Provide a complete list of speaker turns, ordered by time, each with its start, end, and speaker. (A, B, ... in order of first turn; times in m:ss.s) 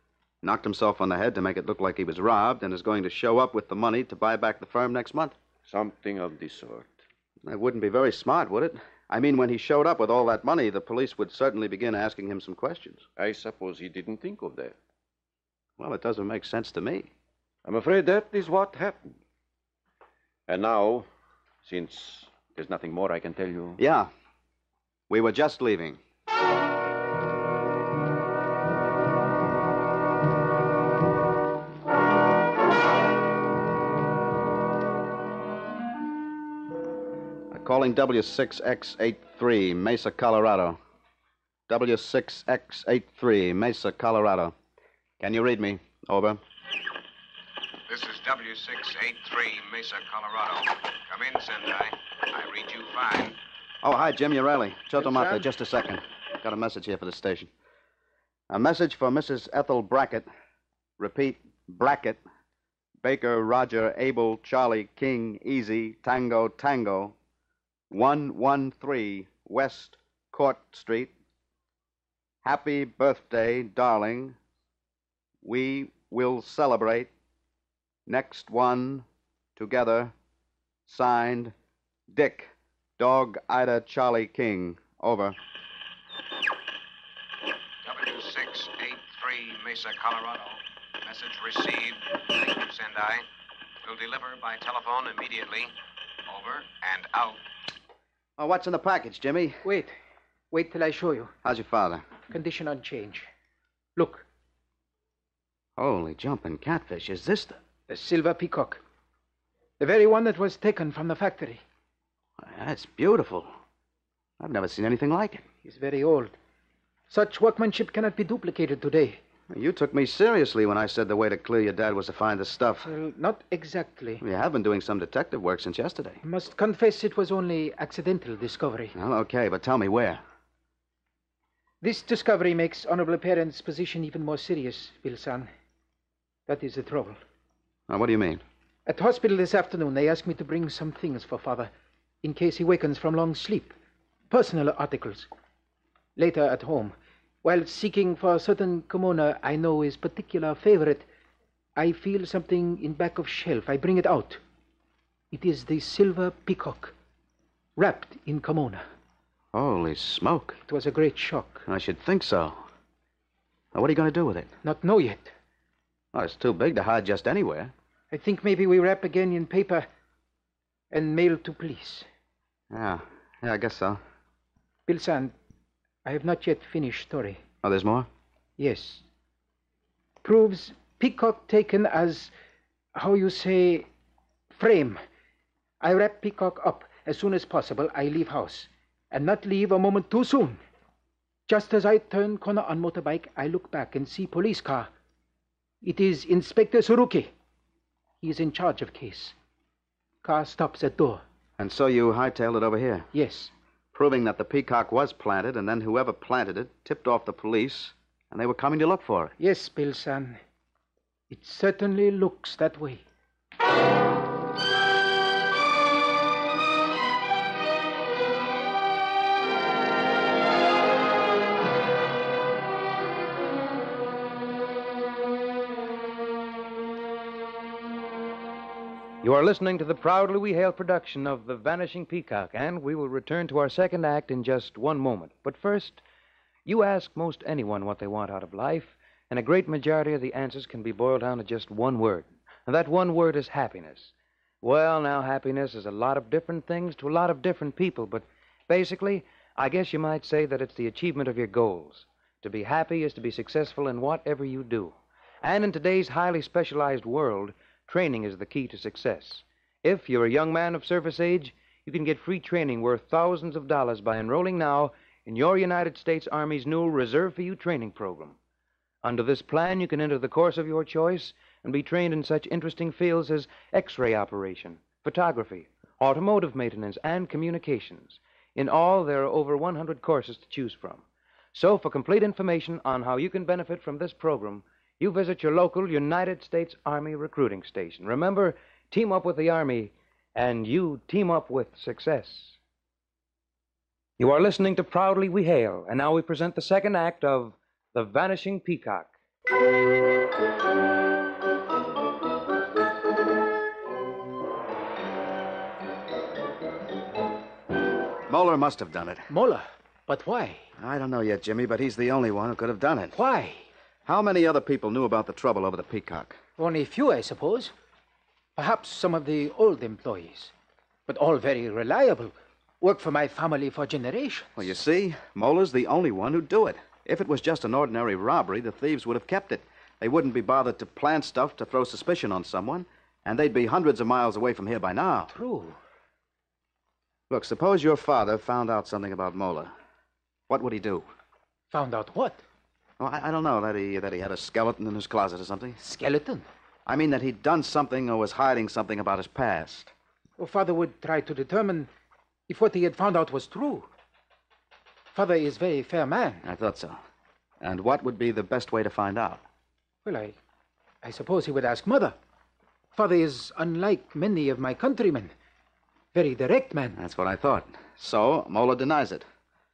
0:00.4-0:05.4 A
0:05.7-0:07.0 B
0:07.4-0:13.0 A
0:13.2-0:14.8 B
0:15.8-0:17.1 A
0:17.6-0:19.2 B
0:20.5-0:21.1 B
0:21.6-0:23.8 B
0:23.8-0:24.1 A
0:25.1-0:26.0 A
0:37.5-0:40.8 A
0:41.7-0:44.5 A
0:45.2-0:46.4 A
0:47.9-0:53.4 C
0:53.8-0:57.5 A
0:55.0-0:55.5 D
0:58.5-1:00.3 A
1:01.0-1:02.2 A
1:03.0-1:07.2 A
1:07.9-1:11.1 A
1:12.4-1:14.4 A
1:15.4-1:17.1 A
1:18.1-1:19.1 A
1:19.6-1:20.1 A
1:20.9-1:21.5 A
1:22.1-1:25.4 A
1:27.8-1:33.2 C
1:33.8-1:35.7 C
1:36.3-1:37.4 C
1:38.4-1:39.6 A
1:39.6-1:39.9 D
1:40.5-1:41.3 D
1:41.4-1:42.0 A
1:42.3-1:43.3 D
1:44.0-1:44.2 D
1:45.8-1:47.6 A
1:47.9-1:48.8 D
1:49.8-1:51.6 D
1:52.4-1:53.5 A
1:54.4-1:55.4 A
1:55.6-1:56.4 D
1:57.1-1:59.2 D
1:59.5-2:02.9 A
2:02.8-2:04.2 D
2:04.2-2:06.2 A
2:06.2-2:09.0 D
2:09.0-2:10.2 A
2:11.8-2:15.5 D
2:16.5-2:17.2 D
2:17.9-2:18.4 A
2:18.9-2:21.7 D
2:22.2-2:23.8 D
2:24.3-2:25.3 D
2:26.2-2:31.0 D
2:31.8-2:34.4 D
2:35.3-2:36.9 D
2:37.8-2:38.8 D
2:39.5-2:40.6 A
2:40.7-2:41.6 D
2:41.7-2:42.6 A
2:43.7-2:44.5 A
2:44.6-2:45.3 D
2:46.1-2:47.7 A
2:48.1-2:49.9 D
2:50.9-2:52.1 D
2:52.7-2:54.0 A
2:54.9-2:55.3 D
2:56.0-2:57.4 D
2:57.6-2:58.1 A
2:58.6-2:59.0 D
3:00.2-3:02.3 D
3:03.0-3:03.9 D
3:04.5-3:05.0 D
3:05.8-3:10.6 D
3:11.5-3:14.9 D
3:15.8-3:17.3 D
3:18.2-3:19.4 D
3:20.2-3:21.2 D
3:21.6-3:23.1 A
3:23.1-3:23.5 D
3:23.9-3:29.3 A
3:29.4-3:30.4 D
3:31.3-3:33.0 D
3:49.2-3:56.0 E
3:56.7-4:28.4 E
4:29.0-4:52.6 E
4:54.2-4:59.1 E
5:08.3-5:09.3 A
5:09.3-5:10.7 D
5:10.8-5:13.2 A
5:13.2-5:13.7 D
5:14.1-5:16.4 A
5:16.6-5:17.7 D
5:18.6-5:20.5 D
5:21.1-5:24.7 D
5:24.6-5:35.3 A
5:35.3-5:35.8 D
5:37.3-5:39.7 A
5:40.5-5:41.1 A
5:41.7-5:42.4 D
5:43.0-5:45.8 A
5:45.8-5:46.4 D
5:46.9-5:49.9 A
5:50.4-5:51.9 D
5:52.5-5:53.9 D
5:55.1-5:56.5 D
5:56.4-5:57.0 A
5:57.6-5:59.4 A
6:00.0-6:00.4 D
6:01.0-6:02.1 D
6:03.0-6:05.3 D
6:06.1-6:07.0 D
6:07.0-6:09.2 A